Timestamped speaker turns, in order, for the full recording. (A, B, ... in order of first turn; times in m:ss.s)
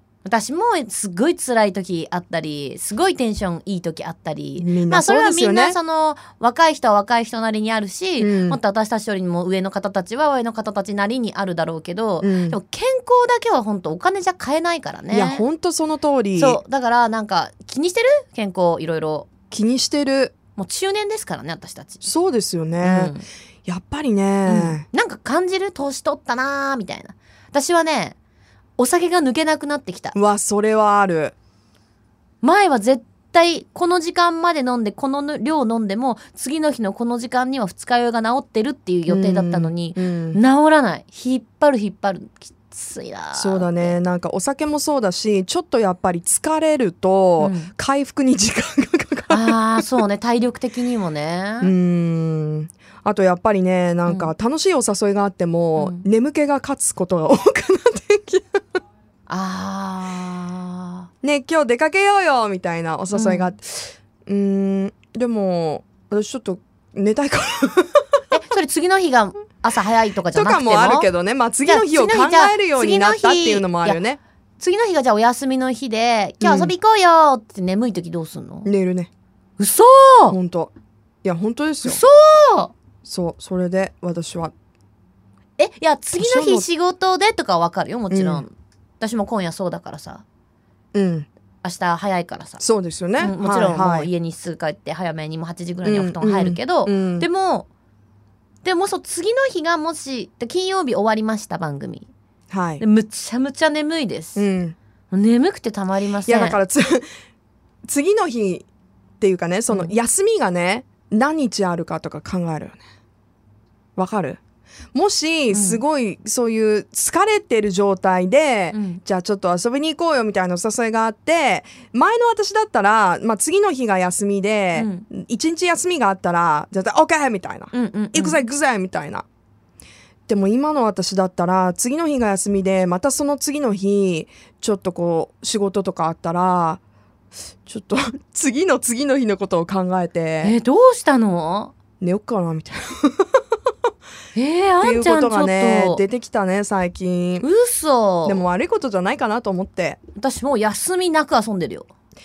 0:00.2-0:15.4 A
0:04.6-0:05.8 B
0:08.2-0:08.6 B
0:12.2-0:12.6 B
0:15.1-0:16.6 B
0:16.4-0:19.3 A
0:19.5-0:20.4 B
0:20.6-0:22.1 A
0:22.0-0:23.2 B
0:22.8-0:23.3 A
0:23.7-0:24.8 B
0:24.5-0:28.2 A
0:28.8-0:30.2 A
0:30.1-0:31.3 B
0:32.4-0:44.0 A
0:39.1-0:40.4 B
0:43.4-0:49.6 B
0:47.4-0:47.7 A
0:49.3-0:51.7 A
0:51.6-0:58.6 B
0:54.1-0:54.3 A
0:55.8-0:56.0 A
0:59.3-1:01.1 A
1:01.2-1:08.2 B
1:03.1-1:03.5 A
1:08.3-1:11.1 A
1:10.3-1:14.2 B
1:11.6-1:14.0 A
1:14.6-1:18.7 A
1:16.4-1:16.8 B
1:18.7-1:19.1 B
1:19.6-1:20.4 A
1:20.3-1:20.7 B
1:21.2-1:22.0 B
1:21.8-1:22.7 A
1:23.0-1:24.5 B
1:25.6-1:30.2 A
1:26.2-1:26.7 B
1:28.1-1:28.4 B
1:30.9-1:31.3 B
1:31.6-1:32.6 A
1:32.6-1:34.1 B
1:33.2-1:37.7 A
1:35.8-1:37.3 B
1:38.6-1:42.1 A
1:42.5-1:42.8 B
1:42.8-1:44.4 A
1:44.4-1:44.8 B
1:45.1-1:46.6 A
1:46.3-1:47.1 B
1:47.8-1:48.7 B
1:49.2-1:52.8 B
1:54.0-1:54.4 B
1:54.9-2:09.2 B
1:55.5-1:55.8 A
1:58.7-1:59.0 A
2:04.8-2:05.1 A
2:07.7-2:08.4 A
2:10.3-2:16.8 B
2:17.7-2:20.6 B
2:20.4-2:21.7 A
2:22.0-2:23.4 B
2:24.4-2:26.0 A
2:24.8-2:27.5 B
2:27.4-2:28.4 A
2:28.2-2:30.0 B
2:30.2-2:31.9 A